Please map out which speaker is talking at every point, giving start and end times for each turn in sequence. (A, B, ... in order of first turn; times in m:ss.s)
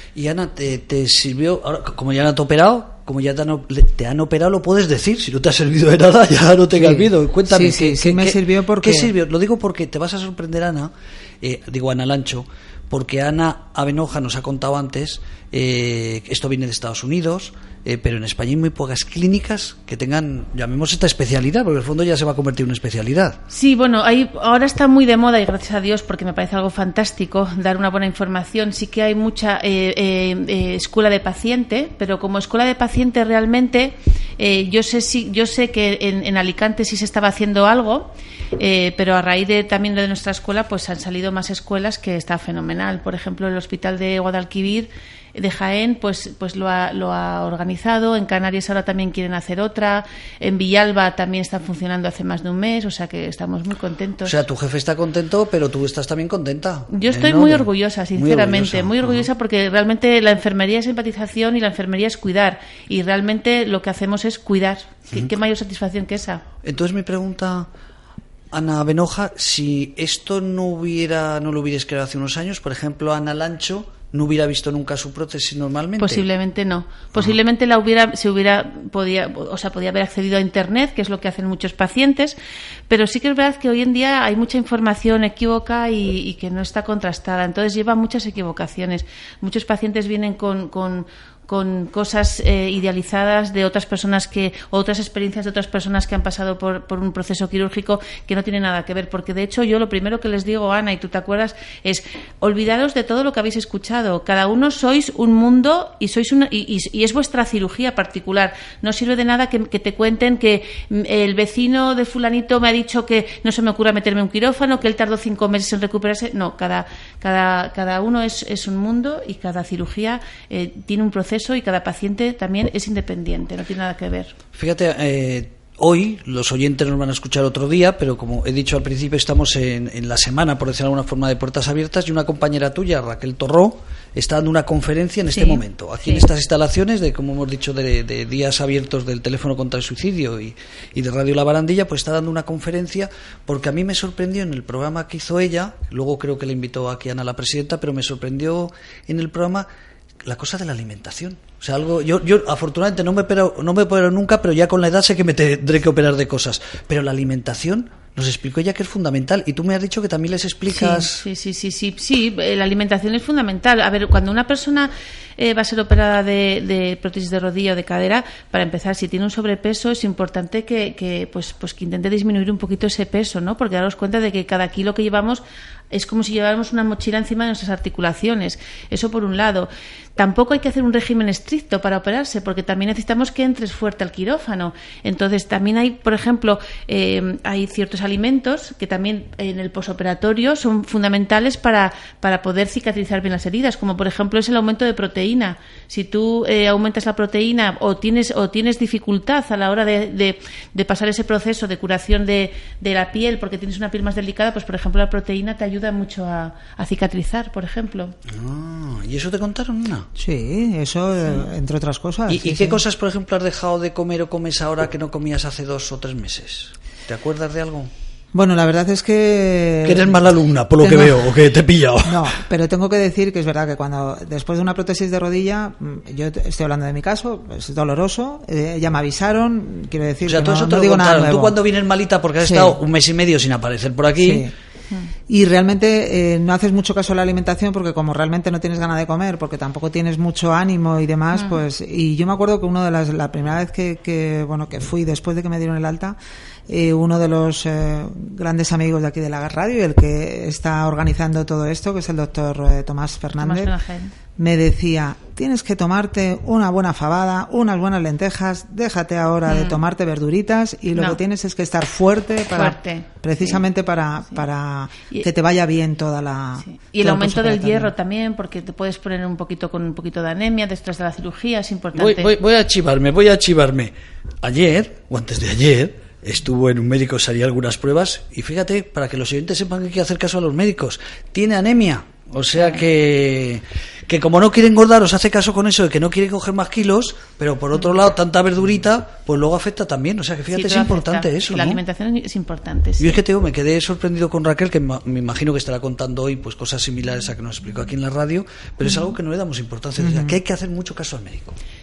0:00.2-0:23.4 A
0:06.7-0:09.1 B
0:23.5-0:54.4 C
0:54.2-0:59.3 A
0:56.9-1:06.4 C
1:06.6-1:07.7 A
1:08.5-1:16.3 A
1:16.0-1:22.4 C
1:22.9-2:04.3 C
2:04.6-2:29.7 A
2:15.3-2:16.3 C
2:30.2-2:41.2 A
2:40.7-3:28.1 C
3:28.3-3:30.1 A
3:30.2-3:32.8 B
3:32.3-3:37.9 A
3:38.3-3:40.2 B
3:39.8-3:42.3 A
3:40.8-3:41.3 B
3:42.0-3:51.6 B
3:50.3-3:54.5 A
3:52.4-3:52.8 B
3:54.2-3:54.5 B
3:55.3-4:06.2 B
4:01.3-4:01.6 C
4:06.7-4:13.8 B
4:13.4-4:14.1 C
4:14.4-4:27.9 B
4:19.5-4:19.8 C
4:22.6-4:23.6 C
4:26.6-4:32.3 C
4:32.0-4:51.8 A
4:50.5-4:53.2 C
4:53.0-5:01.6 A
4:58.8-4:59.1 C
5:00.0-5:00.4 B